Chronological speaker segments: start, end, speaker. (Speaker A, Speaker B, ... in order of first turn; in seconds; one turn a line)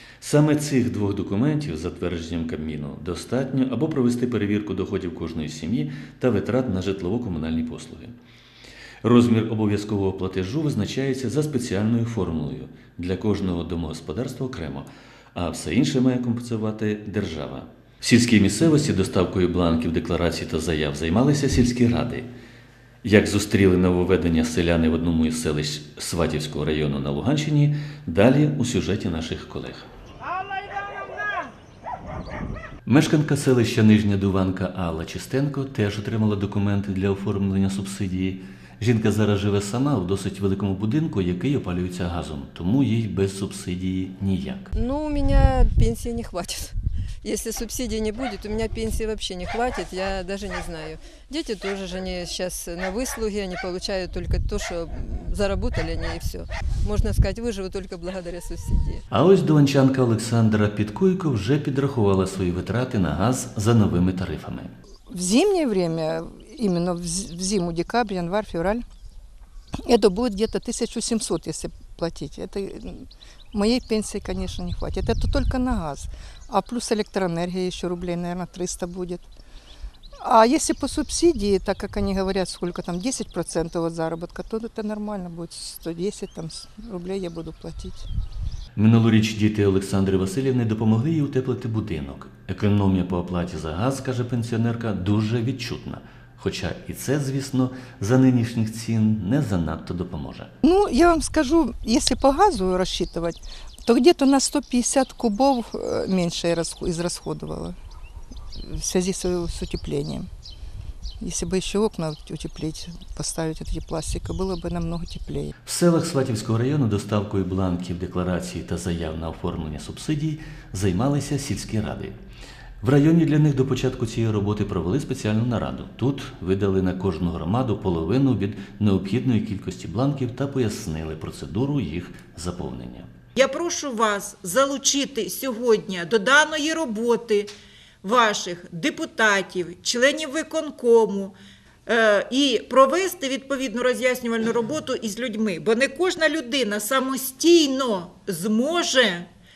Speaker A: 0.2-8.2
Speaker A: 9.0-22.3
Speaker A: 23.0-29.9
Speaker A: 32.8-44.7
Speaker B: 44.7-59.0
Speaker A: 59.1-64.7
Speaker C: 65.1-68.8
Speaker C: 69.8-79.2
Speaker C: 80.2-88.0
Speaker A: 88.8-100.5
Speaker C: 100.6-107.8
Speaker C: 108.6-110.3
Speaker C: 111.2-115.5
Speaker A: 115.6-122.1
Speaker A: 122.8-133.1
Speaker D: 133.3-149.3